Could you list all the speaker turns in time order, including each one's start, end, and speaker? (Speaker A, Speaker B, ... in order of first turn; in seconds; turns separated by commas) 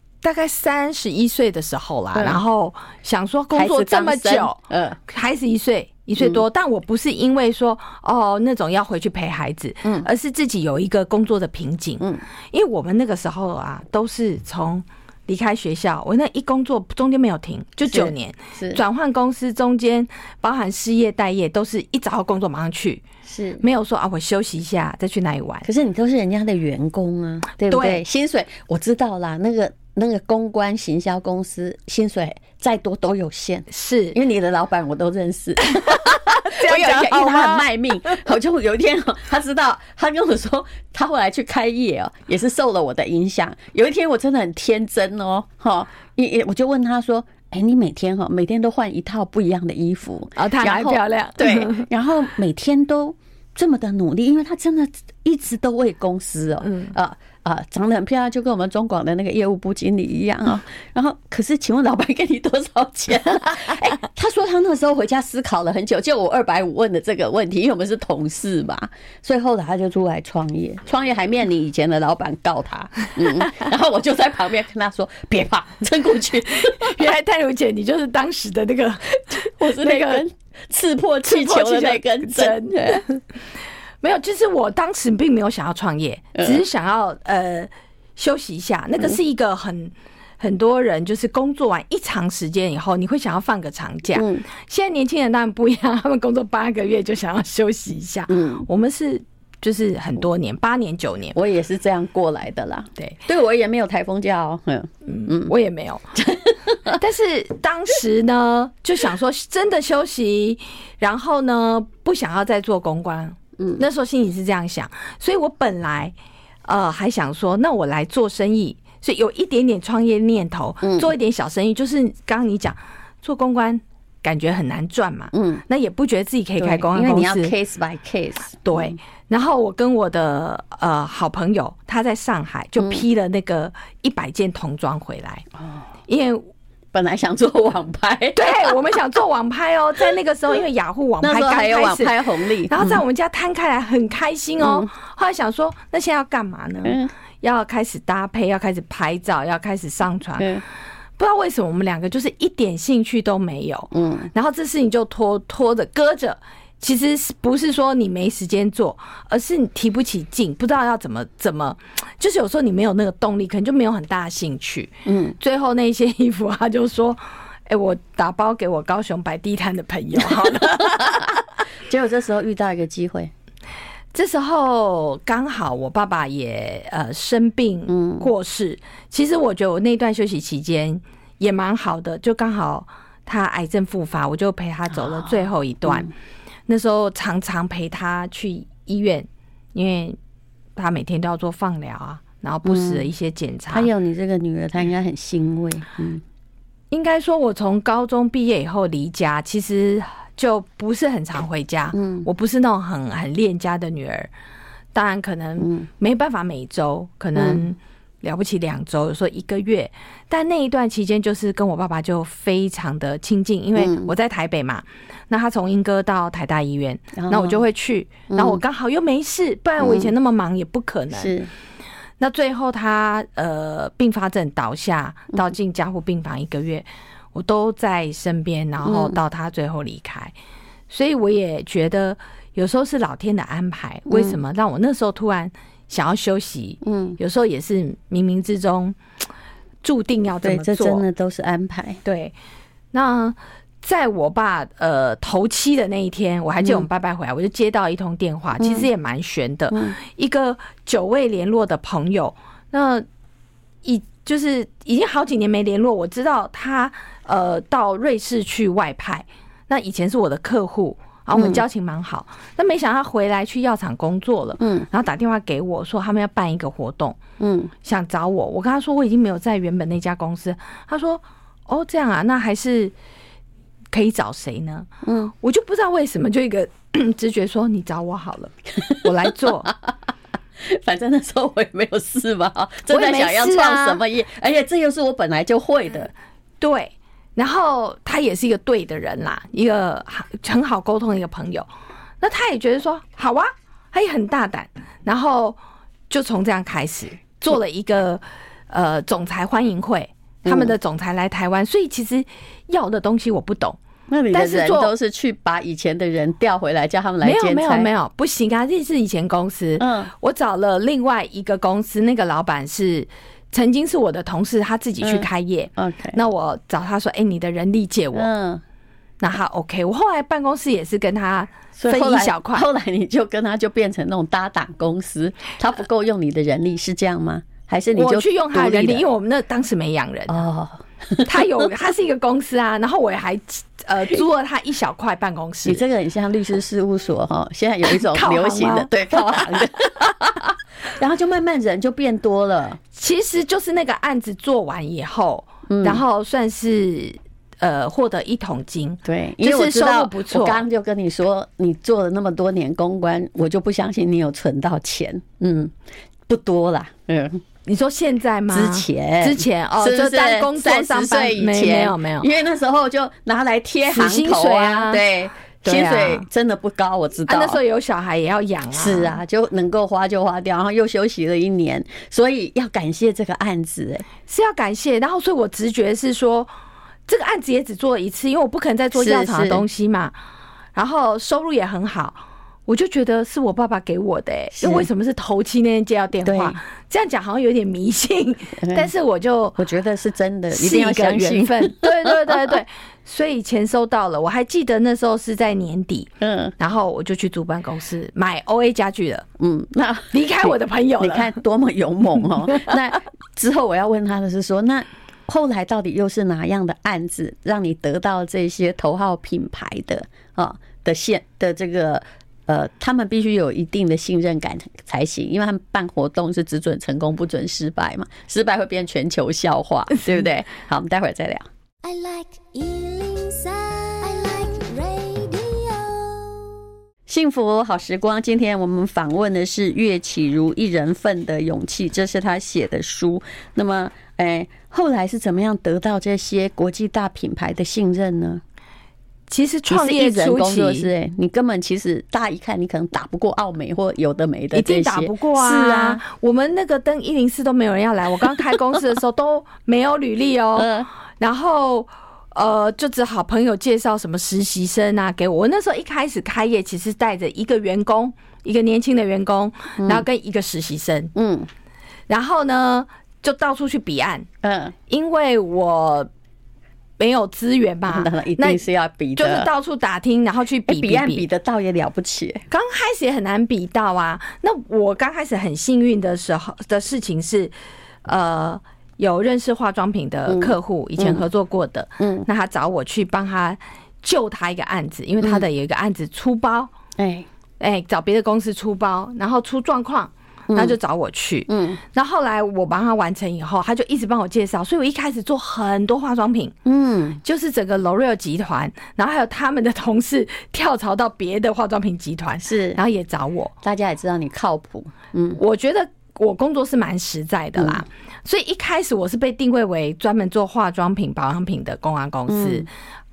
Speaker A: 0.2-23.0, Speaker B: 2.1-2.4, Speaker B: 3.5-5.0, Speaker B: 17.9-18.8, Speaker B: 23.2-23.6, Speaker A: 23.6-25.7, Speaker B: 25.6-77.1, Speaker A: 27.7-28.0, Speaker A: 33.7-34.2, Speaker A: 36.1-37.7, Speaker A: 50.4-51.9, Speaker A: 56.7-56.9, Speaker A: 76.7-80.2, Speaker B: 79.3-83.0, Speaker A: 81.2-83.2, Speaker A: 84.0-101.4, Speaker B: 86.3-86.6, Speaker B: 94.2-94.5, Speaker B: 98.3-98.7, Speaker B: 101.3-105.5, Speaker A: 105.0-106.2, Speaker B: 106.2-107.0, Speaker A: 106.9-116.1, Speaker B: 113.6-113.8, Speaker A: 116.7-127.5, Speaker B: 120.8-121.1, Speaker B: 125.3-125.6, Speaker B: 126.6-129.0, Speaker A: 128.7-135.5, Speaker B: 135.6-135.8, Speaker A: 136.1-136.5, Speaker B: 136.9-138.8, Speaker A: 138.3-150.5, Speaker B: 141.2-143.0, Speaker B: 144.6-144.9, Speaker B: 146.8-147.1, Speaker B: 150.4-150.6, Speaker A: 151.2-171.4, Speaker B: 153.9-154.3, Speaker B: 165.1-165.4, Speaker B: 170.7-171.3, Speaker B: 171.9-173.3, Speaker A: 174.1-186.1, Speaker B: 177.9-178.3, Speaker B: 185.9-186.1, Speaker A: 186.7-190.2, Speaker A: 190.8-193.9, Speaker B: 192.7-193.0, Speaker B: 193.7-196.2, Speaker A: 196.9-204.3, Speaker B: 201.9-202.3, Speaker A: 204.9-221.3, Speaker B: 205.6-205.9, Speaker B: 207.4-207.6, Speaker B: 213.8-214.1, Speaker B: 217.2-217.6, Speaker B: 218.3-218.6, Speaker B: 219.8-220.1, Speaker B: 221.1-221.5, Speaker A: 222.2-230.3, Speaker B: 228.8-229.2, Speaker A: 230.9-239.0, Speaker B: 234.1-234.4, Speaker B: 236.8-237.2, Speaker A: 239.8-241.0, Speaker B: 240.4-242.0, Speaker A: 242.1-242.3, Speaker A: 242.9-253.1, Speaker B: 246.6-246.9, Speaker B: 248.6-248.9, Speaker A: 253.8-267.2, Speaker B: 261.3-261.6, Speaker B: 264.6-264.9, Speaker B: 267.4-267.7, Speaker A: 267.8-272.9, Speaker A: 273.9-274.9, Speaker B: 275.0-275.3, Speaker A: 275.4-279.7, Speaker B: 280.6-286.1, Speaker A: 282.9-284.0, Speaker A: 286.6-291.7, Speaker A: 292.2-295.6, Speaker A: 296.1-303.8, Speaker B: 300.4-300.7, Speaker B: 304.1-307.9, Speaker A: 304.3-304.9, Speaker A: 307.2-318.3, Speaker B: 309.8-310.1, Speaker B: 315.0-316.2, Speaker B: 318.1-318.6, Speaker A: 319.2-322.7, Speaker B: 321.8-329.1, Speaker A: 327.9-330.4, Speaker B: 330.3-331.7, Speaker A: 331.2-335.8, Speaker B: 335.6-342.8, Speaker A: 337.9-339.6, Speaker A: 342.9-350.6, Speaker B: 345.7-346.0, Speaker B: 349.1-355.7, Speaker B: 356.3-357.4, Speaker A: 357.6-362.3, Speaker B: 358.5-367.6, Speaker A: 363.9-365.1, Speaker A: 365.6-366.2, Speaker A: 367.3-369.2, Speaker B: 368.8-374.1, Speaker A: 374.2-376.5, Speaker A: 377.1-380.1, Speaker B: 378.9-379.6, Speaker A: 380.8-389.6, Speaker B: 384.6-384.9, Speaker B: 386.2-386.6, Speaker B: 388.6-388.9, Speaker B: 389.6-392.4, Speaker A: 390.5-399.2, Speaker B: 396.2-396.6, Speaker B: 399.4-421.4, Speaker A: 400.1-401.3, Speaker C: 421.8-426.5, Speaker B: 427.1-438.4, Speaker A: 439.3-440.9, Speaker B: 439.7-446.0, Speaker A: 444.5-461.1, Speaker B: 450.6-450.9, Speaker B: 459.8-460.0, Speaker B: 461.1-461.5, Speaker A: 462.1-464.3, Speaker B: 464.4-464.7, Speaker A: 464.9-466.1, Speaker A: 467.0-468.6, Speaker B: 467.9-469.5, Speaker A: 469.2-471.2, Speaker B: 470.7-472.5, Speaker A: 472.5-477.5, Speaker A: 478.0-486.7, Speaker B: 480.3-481.2, Speaker B: 482.0-482.2, Speaker B: 487.0-487.3, Speaker A: 487.6-496.5, Speaker B: 490.5-490.8, Speaker B: 491.5-491.8, Speaker B: 496.6-497.2, Speaker A: 497.2-503.5, Speaker B: 502.4-502.8, Speaker B: 503.6-505.4, Speaker A: 505.4-512.7, Speaker B: 507.6-507.8, Speaker B: 512.3-512.6